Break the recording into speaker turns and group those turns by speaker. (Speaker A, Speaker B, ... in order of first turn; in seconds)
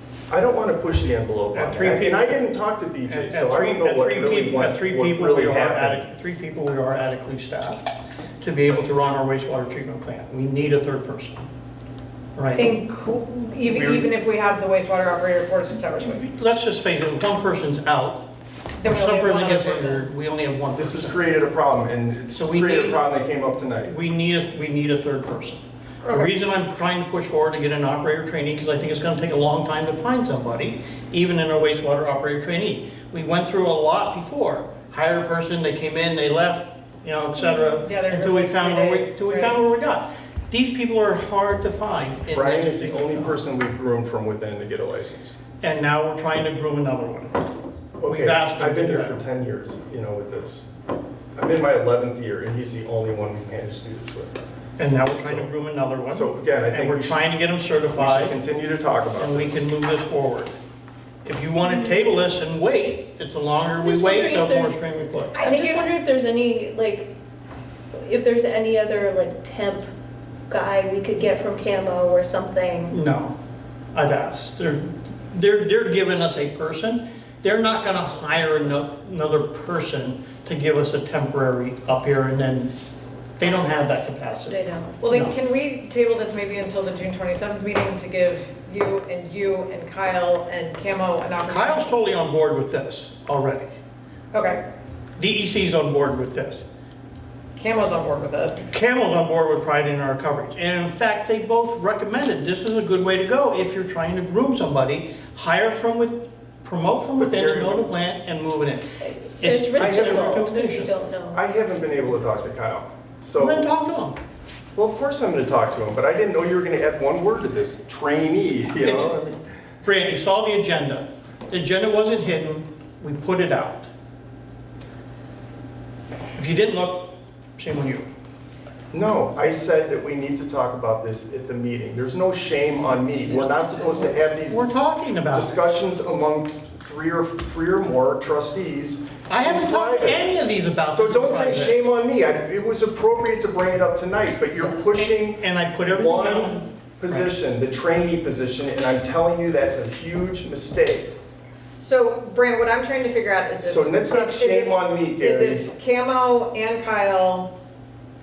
Speaker A: 0.3-6.0, 13.7-14.1, 20.8-23.9, 42.3-45.4, 48.0-50.7, 51.4-54.4, 55.1-55.5, 56.1-57.2, 58.0-59.6, 107.2-107.9, 109.8-110.5, 111.3-113.7, 114.8-119.4, 128.9-140.2, 140.9-151.1, 153.6-155.7
Speaker B: 1.5-2.4, 3.0-7.8, 8.4-11.4, 12.4-12.8, 16.0-18.2, 18.8-21.2, 22.4-23.1, 23.8-43.4, 45.6-47.3, 48.0-49.2, 54.8-58.4, 59.2-60.5, 61.2-65.4, 72.9-73.4, 73.9-82.7, 83.4-84.6, 91.5-93.7, 95.2-96.6, 98.7-108.8, 109.4-110.9, 113.4-114.2, 118.8-119.2, 119.8-123.9, 126.3-128.1, 133.4-135.6, 139.3-141.8, 145.3-147.3
Speaker C: 12.6-16.2, 18.8-20.1, 26.0-26.3, 37.4-39.6, 65.4-65.9, 85.0-91.9, 94.3-94.6, 97.6-98.6, 151.8-157.5
Speaker D: 63.8-64.8, 65.4-67.1, 68.0-69.9, 70.5-73.0, 84.5-85.0, 109.0-111.5